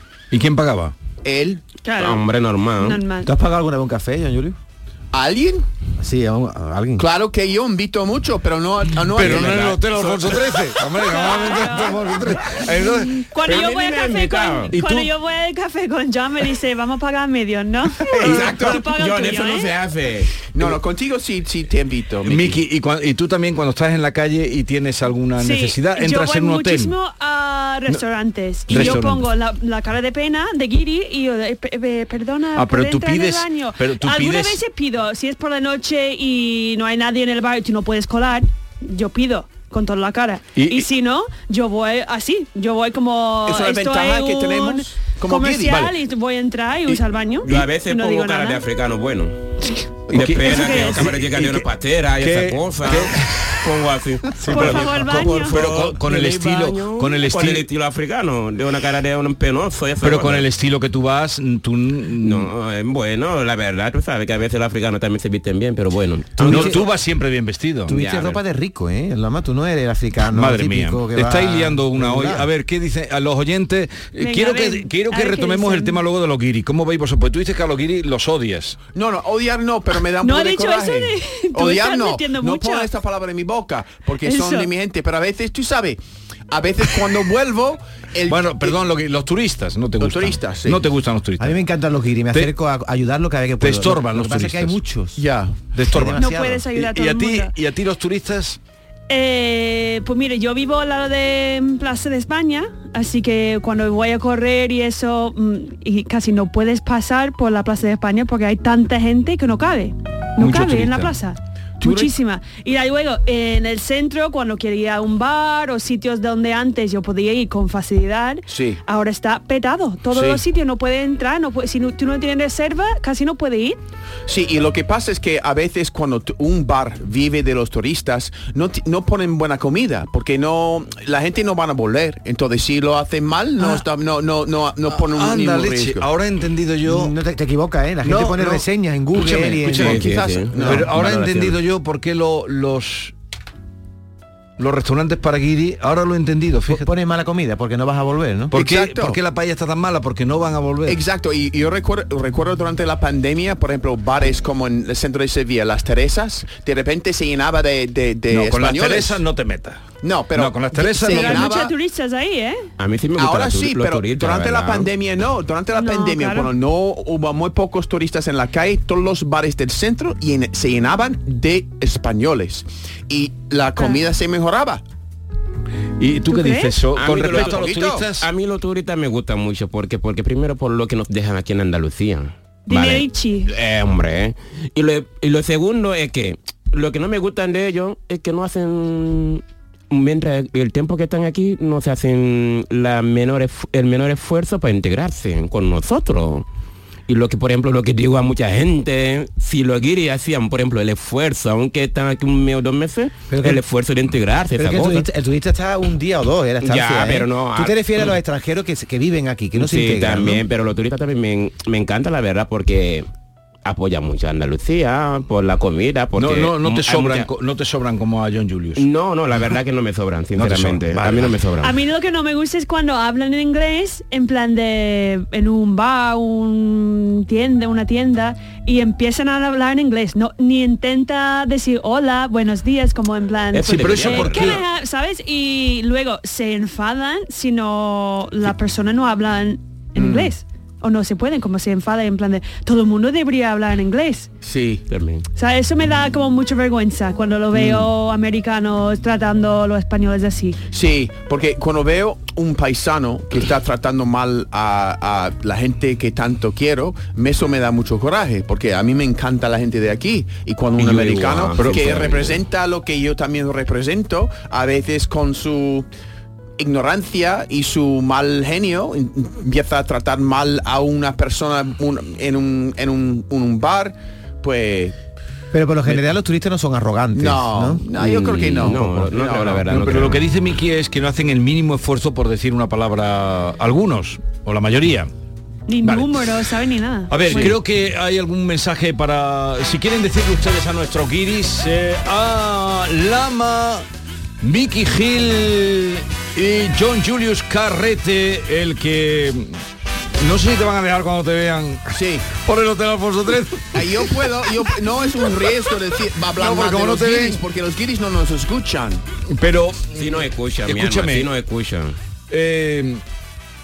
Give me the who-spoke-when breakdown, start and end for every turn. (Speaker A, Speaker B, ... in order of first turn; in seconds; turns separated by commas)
Speaker A: 0.3-0.9, Speaker B: 1.2-1.6, Speaker C: 1.8-2.2, Speaker D: 2.0-3.0, Speaker C: 2.8-3.3, Speaker E: 3.2-4.6, Speaker B: 5.1-5.6, Speaker E: 6.0-7.1, Speaker B: 7.0-10.0, Speaker A: 9.1-13.2, Speaker D: 9.2-10.6, Speaker C: 11.0-19.7, Speaker D: 13.4-14.7, Speaker A: 14.7-15.1, Speaker B: 18.2-18.8, Speaker D: 18.4-20.4, Speaker B: 20.5-22.6, Speaker A: 22.2-26.9, Speaker C: 25.4-48.6, Speaker A: 28.7-29.3, Speaker A: 32.5-34.6, Speaker A: 40.5-40.9, Speaker B: 43.5-45.9, Speaker D: 47.4-49.4, Speaker A: 50.1-51.7, Speaker D: 50.1-60.5, Speaker C: 50.4-51.1, Speaker A: 52.2-53.6, Speaker A: 54.4-57.6, Speaker C: 54.5-55.6, Speaker A: 60.0-62.5, Speaker D: 62.2-66.9, Speaker E: 66.4-66.8, Speaker A: 66.4-68.0, Speaker E: 67.9-72.5, Speaker D: 67.9-68.4, Speaker A: 70.3-78.8, Speaker C: 74.2-76.0, Speaker B: 78.9-86.0, Speaker C: 80.2-82.9, Speaker C: 84.2-84.7, Speaker B: 86.5-88.8, Speaker A: 88.3-91.6, Speaker B: 90.0-90.8, Speaker E: 91.4-95.2, Speaker A: 93.6-94.8, Speaker B: 95.2-95.6, Speaker A: 95.7-98.6, Speaker E: 95.8-96.6, Speaker C: 96.1-97.5, Speaker C: 99.1-123.8, Speaker A: 110.4-111.1, Speaker B: 111.8-112.1, Speaker B: 118.5-118.8, Speaker B: 124.3-136.1, Speaker A: 134.9-137.1, Speaker E: 136.8-140.1, Speaker A: 138.0-138.6, Speaker A: 139.2-143.1, Speaker D: 139.7-141.6, Speaker B: 139.8-140.9, Speaker A: 144.6-146.8, Speaker E: 146.7-148.5, Speaker A: 148.5-151.0, Speaker B: 148.5-149.2, Speaker B: 150.8-159.2, Speaker A: 158.3-161.5, Speaker B: 160.0-161.7, Speaker C: 161.0-162.6, Speaker D: 162.8-164.9, Speaker B: 163.2-174.8, Speaker C: 165.8-166.5, Speaker A: 176.0-178.3, Speaker C: 176.3-176.7, Speaker D: 176.9-196.4, Speaker B: 177.2-178.1, Speaker C: 182.7-183.5, Speaker D: 197.1-205.1, Speaker E: 203.3-203.6, Speaker E: 204.6-210.4, Speaker D: 206.6-208.1, Speaker D: 209.5-213.1, Speaker D: 213.6-217.3, Speaker A: 216.2-218.8, Speaker D: 218.8-221.8, Speaker A: 220.3-221.4, Speaker C: 221.6-244.3, Speaker D: 233.5-234.6, Speaker A: 233.7-234.6, Speaker B: 240.0-240.2, Speaker B: 244.4-244.8, Speaker D: 244.9-245.2, Speaker C: 245.3-250.6, Speaker B: 247.5-247.9, Speaker B: 250.7-265.9, Speaker D: 260.8-262.4, Speaker A: 261.6-262.1, Speaker B: 266.6-274.9, Speaker E: 275.5-277.9, Speaker B: 277.1-279.6, Speaker D: 278.0-280.2, Speaker A: 279.6-285.1, Speaker C: 285.7-287.6, Speaker A: 285.8-286.2, Speaker A: 287.1-293.8, Speaker A: 294.4-299.6, Speaker A: 300.2-303.9, Speaker B: 301.9-302.3, Speaker B: 303.7-309.0, Speaker A: 306.4-307.4, Speaker A: 309.3-311.3, Speaker D: 310.0-311.9, Speaker A: 312.3-313.0